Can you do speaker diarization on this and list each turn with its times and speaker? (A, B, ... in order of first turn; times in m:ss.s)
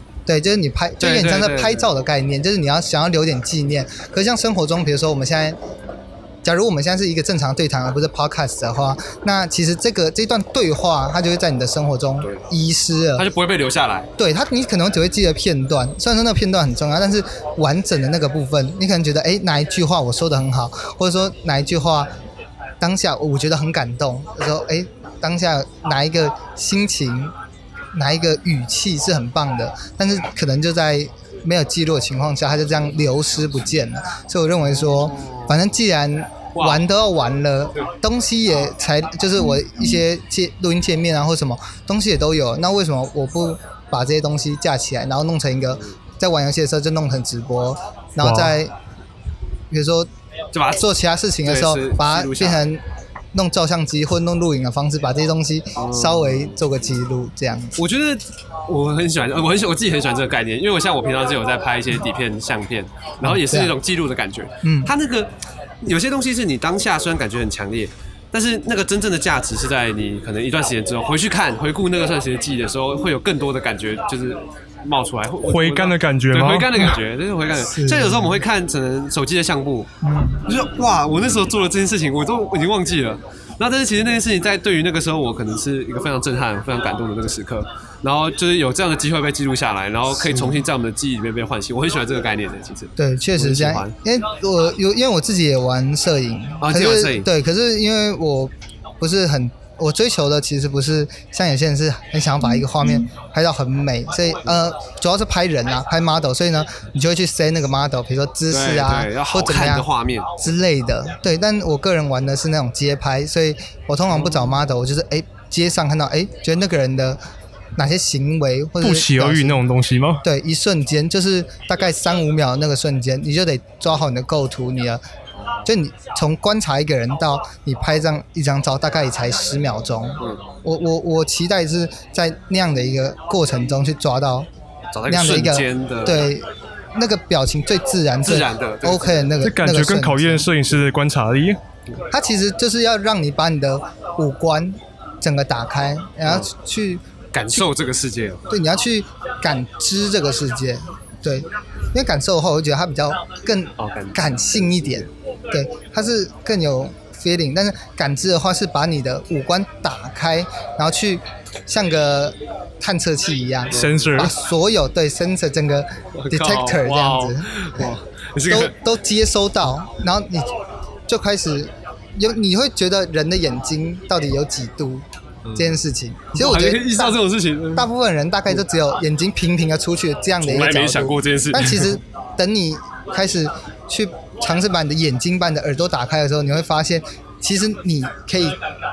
0:00.3-0:05.6 A
0:01.0-0:01.9 B
0:06.4-0:13.3 A
0:13.2-0:14.1 B
0:14.2-0:22.1 A
0:22.8-0:27.3 A
0:27.9-0:48.7 A
0:34.7-0:35.6 B
0:36.6-0:36.8 B
0:48.2-0:48.6 C
0:49.7-0:50.1 A
0:50.5-0:50.8 B
0:50.7-0:57.8 A
0:51.4-0:52.6 B
0:55.8-0:56.6 B
0:57.8-1:19.9 B
1:03.2-1:03.8 A
1:04.6-1:04.9 A
1:15.4-1:16.8 C
1:17.6-1:18.4 A
1:20.0-1:20.5 A
1:20.5-1:33.9 B
1:30.2-1:30.6 A
1:33.0-1:49.9 A
1:36.6-1:37.3 B
1:48.5-1:50.3 B
1:50.4-1:57.2 A
1:54.2-1:54.5 B
1:57.8-1:59.6 A
1:58.8-2:00.2 C
2:00.2-2:05.0 A
2:05.7-2:14.5 A
2:14.9-2:16.3 B
2:15.1-2:20.5 A
2:18.3-2:19.3 B
2:19.4-2:21.6 C
2:22.1-2:27.0 A
2:27.3-2:28.5 B
2:28.5-2:47.5 A
2:33.8-2:35.1 B
2:43.7-2:44.2 B
2:43.7-2:44.3 C
2:46.2-2:48.7 B
2:48.5-2:50.5 A
2:51.1-2:55.0 A
2:55.5-2:55.8 B
2:55.6-2:57.2 A
2:56.4-2:57.9 B
2:57.8-3:08.6 A
3:00.4-3:02.0 B